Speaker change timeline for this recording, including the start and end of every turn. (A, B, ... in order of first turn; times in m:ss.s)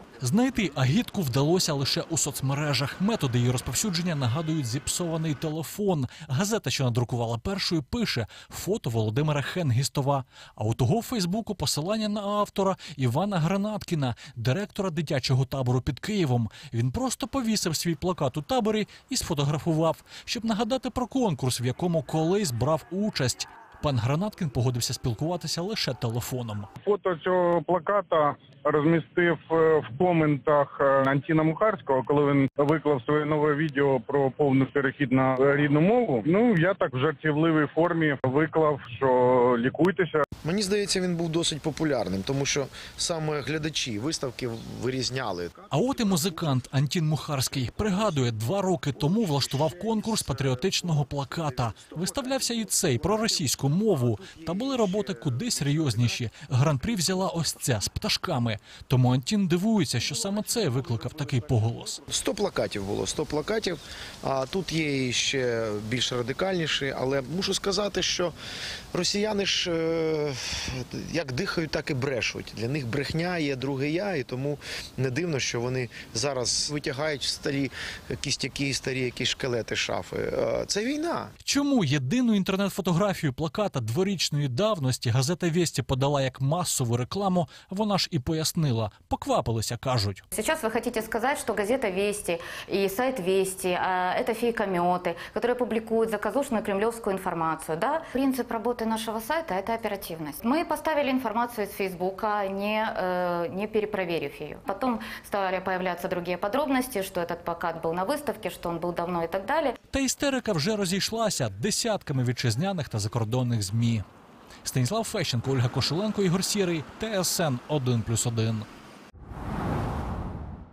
0:00.2-0:26.7 A
0:26.8-0:40.2 B
0:40.4-0:46.4 C
0:45.7-1:02.0 A
0:47.6-0:48.0 C
0:49.0-0:49.5 C
0:51.0-0:51.3 C
0:52.6-0:53.6 C
1:02.1-1:08.4 C
1:08.9-1:21.3 C
1:21.4-1:30.2 A
1:30.3-1:49.8 D
1:49.9-1:54.0 A
1:54.6-1:58.7 A